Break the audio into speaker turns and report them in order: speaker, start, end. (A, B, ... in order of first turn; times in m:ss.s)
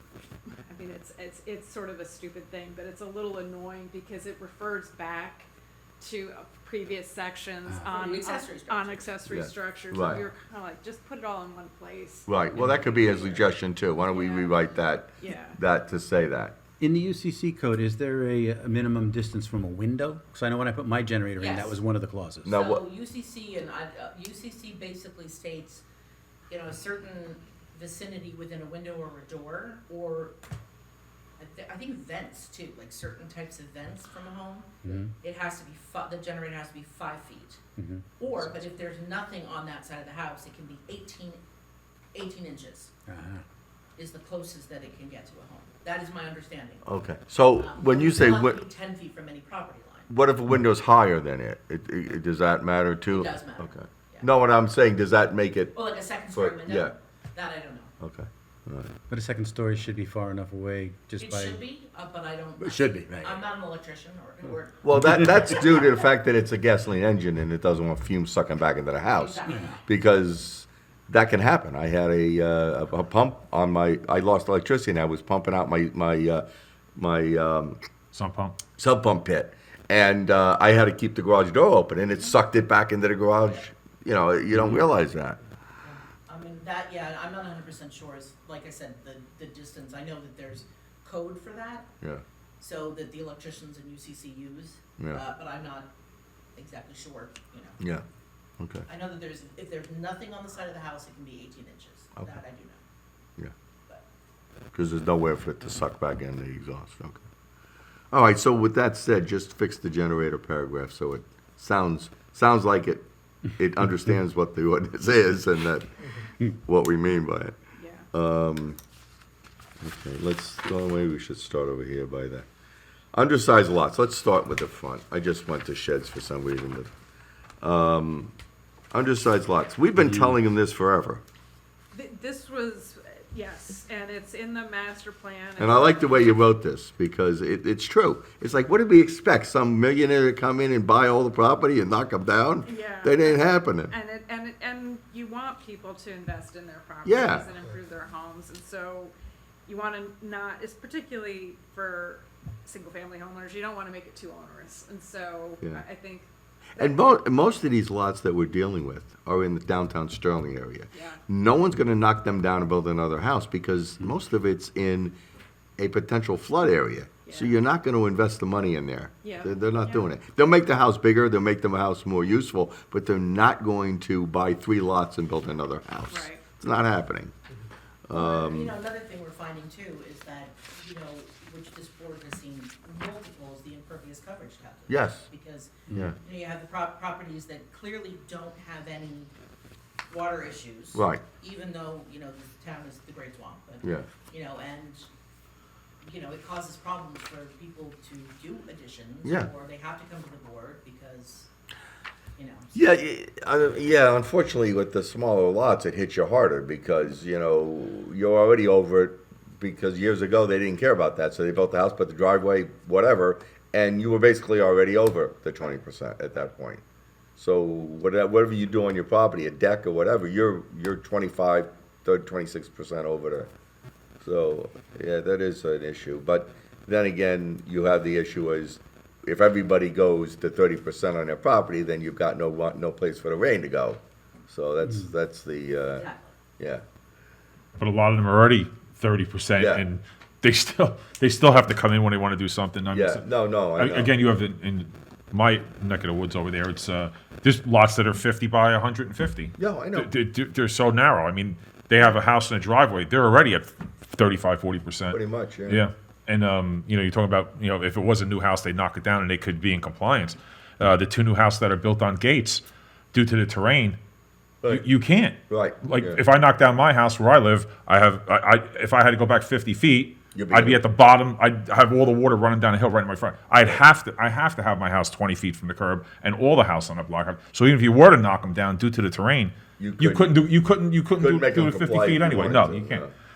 0:00.5-0:05.5 A
0:06.0-0:12.4 A
0:07.9-0:09.2 B
0:09.3-0:10.2 C
0:12.3-0:16.6 C
0:12.6-0:12.8 D
0:12.8-0:13.2 B
0:12.9-0:13.4 A
0:14.0-0:14.7 A
0:15.2-0:15.6 A
0:16.8-0:22.6 D
0:21.4-0:21.8 B
0:22.4-0:22.8 C
0:22.5-0:25.8 B
0:26.5-0:30.4 B
0:31.4-0:37.6 B
0:34.8-0:35.1 D
0:37.8-0:38.4 D
0:38.2-0:41.4 B
0:42.1-0:42.9 B
0:43.1-0:43.4 D
0:44.0-0:46.8 B
0:46.8-0:48.6 C
0:47.6-0:50.1 B
0:50.1-0:55.7 C
0:53.1-0:54.3 B
0:55.7-0:57.9 B
0:56.3-0:56.9 C
0:58.0-0:58.9 C
0:59.1-1:01.6 D
1:01.2-1:05.7 B
1:02.6-1:03.4 D
1:04.8-1:16.4 C
1:09.1-1:09.9 B
1:17.0-1:17.8 C
1:18.1-1:18.6 E
1:18.8-1:25.4 C
1:25.8-1:31.9 B
1:32.6-1:35.9 B
1:36.6-1:37.8 B
1:38.6-1:38.8 C
1:38.9-1:42.8 B
1:44.7-1:47.2 C
1:48.1-1:55.9 C
1:56.4-1:57.5 C
1:57.8-1:58.1 A
1:58.1-1:58.8 C
1:59.8-2:02.5 C
2:03.1-2:06.9 C
2:07.6-2:08.3 C
2:08.9-2:11.2 C
2:10.0-2:10.3 D
2:11.9-2:16.4 A
2:15.6-2:23.9 C
2:22.6-2:29.1 A
2:27.0-2:27.5 C
2:29.7-2:37.2 A
2:36.8-2:45.2 C
2:40.9-2:41.2 A
2:45.8-2:57.3 C
2:47.3-2:47.5 A
2:49.2-2:50.1 A
2:56.1-2:56.4 A
2:58.1-2:58.8 C
2:58.1-3:09.3 B
3:04.9-3:05.3 C
3:05.9-3:06.2 D
3:10.1-3:15.1 B
3:10.9-3:11.2 C
3:13.8-3:14.1 C
3:16.0-3:21.5 B
3:19.2-3:19.5 C
3:22.4-3:22.8 B
3:22.7-3:36.8 C
3:37.4-3:43.5 C
3:44.2-3:56.1 C
3:55.9-3:56.4 B
3:57.8-4:24.0 E
3:59.6-3:59.8 C
4:02.9-4:04.2 C
4:09.6-4:10.1 C
4:15.1-4:15.8 C
4:24.6-4:43.0 E
4:25.5-4:26.2 C
4:30.3-4:30.8 C
4:39.8-4:40.4 C
4:41.2-4:43.1 C